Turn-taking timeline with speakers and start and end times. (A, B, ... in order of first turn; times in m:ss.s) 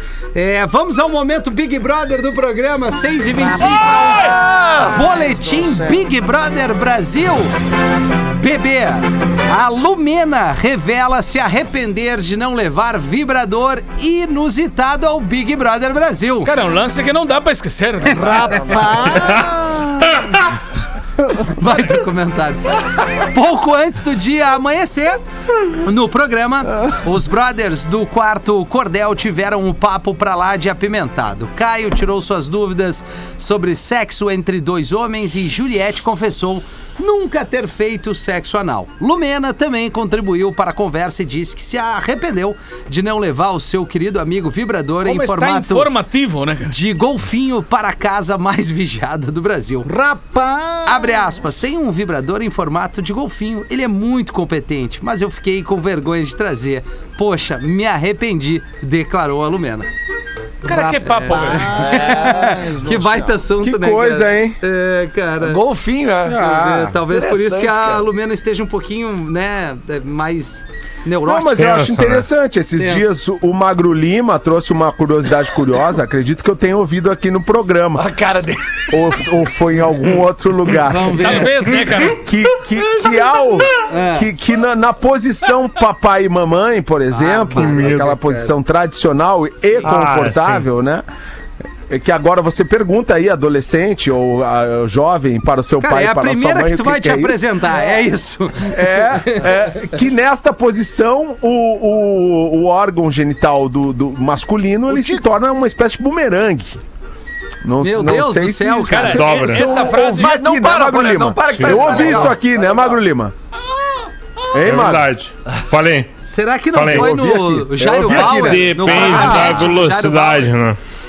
0:00.4-0:07.6 A
0:03.5-0:04.4 B
0:03.6-0:06.0 C
0:04.1-0:05.0 D
0:08.3-0:16.5 A
0:16.4-0:18.6 B
0:18.1-0:20.2 C
0:18.4-0:19.0 E
0:19.1-0:19.4 F
0:21.4-0:45.9 A
0:45.0-0:46.7 B
0:46.7-0:49.9 A
0:49.8-0:51.3 C
0:50.9-0:59.9 A
1:00.6-1:03.3 C
1:00.6-1:01.8 B
1:01.1-1:05.6 A
1:01.8-1:02.7 D
1:03.6-1:04.6 E
1:05.4-1:08.0 D
1:06.2-1:06.9 E
1:06.4-1:11.8 A
1:11.2-1:18.1 E
1:11.6-1:12.3 F
1:12.8-1:13.0 A
1:17.9-1:19.1 D
1:18.9-1:31.0 E
1:20.8-1:21.5 A
1:21.2-1:22.2 B
1:23.8-1:24.3 A
1:27.1-1:28.5 A
1:27.5-1:28.2 F
1:29.6-1:30.0 A
1:29.8-1:30.7 F
1:31.9-1:37.4 E
1:35.8-1:40.0 A
1:38.7-1:46.8 E
1:44.9-1:45.2 C
1:47.6-1:53.3 E
1:47.8-1:49.2 A
1:48.9-1:50.4 B
1:49.1-1:49.8 F
1:50.1-1:53.0 D
1:53.7-1:54.5 B
1:54.5-1:55.1 E
1:54.6-1:56.1 F
1:56.2-2:00.5 A
1:56.7-1:57.4 F
1:56.9-1:59.7 E
1:58.0-2:00.8 F
1:58.9-1:59.5 D